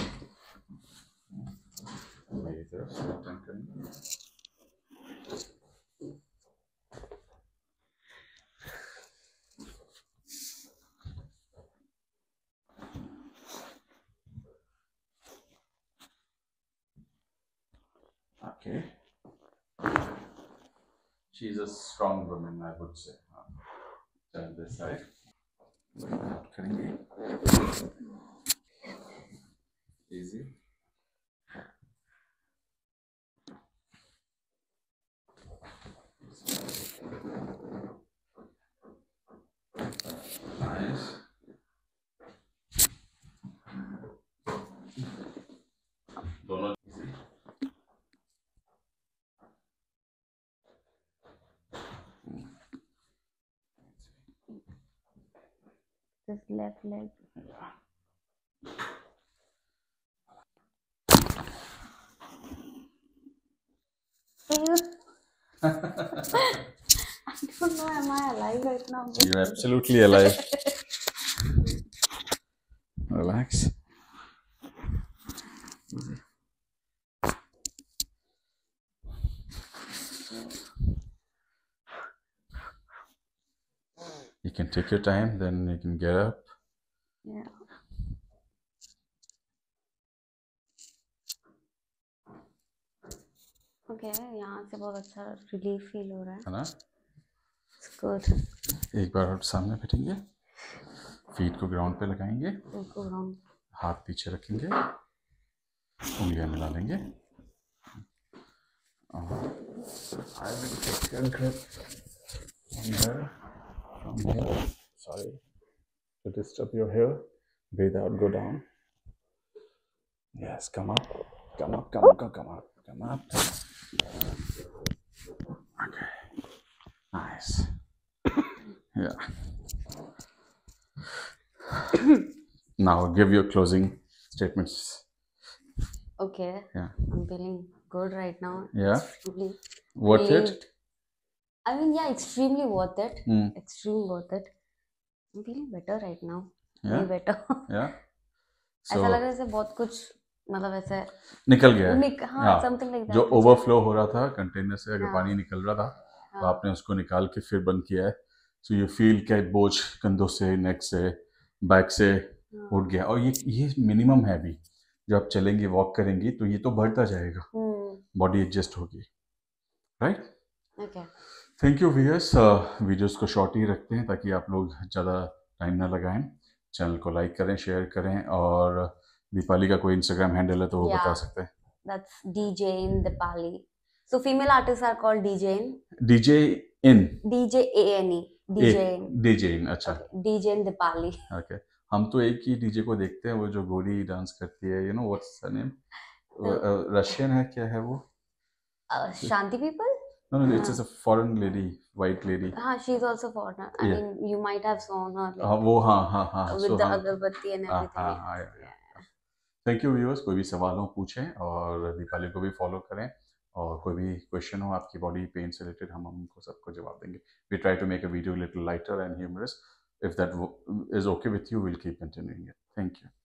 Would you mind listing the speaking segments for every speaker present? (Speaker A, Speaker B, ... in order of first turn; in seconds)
Speaker A: 2.3-3.8, 18.4-19.0, 21.3-23.5, 24.3-25.1, 26.0-27.0, 30.1-30.5, 40.5-41.2, 46.4-47.1, 57.4-57.7, 65.8-66.0, 69.2-70.5, 73.1-73.8, 84.4-86.5, 96.5-96.7, 98.9-100.2, 101.3-102.7, 103.8-104.8, 106.2-107.0, 109.1-109.6, 110.3-111.8, 112.7-113.3, 114.0-115.4, 116.2-118.6, 120.3-123.6, 125.8-126.3, 127.1-127.9, 128.9-129.7, 132.8-135.1, 136.7-137.1, 138.7-139.1, 140.0-140.6, 143.3-143.6, 146.8-147.1, 147.7-148.0, 148.9-149.2, 151.5-167.5, 168.1-169.1, 170.0-170.3, 171.4-181.5, 186.0-187.2, 188.6-190.0, 191.3-195.8, 196.4-198.1, 200.3-202.6, 205.4-207.1, 207.7-209.1, 209.6-223.1
Speaker B: 56.3-57.2, 64.5-65.0, 66.2-66.6, 67.3-70.8, 87.2-87.5, 93.9-96.5, 97.8-98.5, 102.7-103.4, 136.2-140.7, 141.7-144.5, 145.3-147.7, 148.9-151.1, 151.8-153.7, 155.0-155.3, 156.3-156.6, 162.5-162.9, 167.5-168.0, 170.8-171.1, 180.8-181.2, 181.9-185.8, 187.2-189.1, 189.8-191.2, 198.9-199.9, 200.5-200.8, 202.5-205.8, 206.5-208.9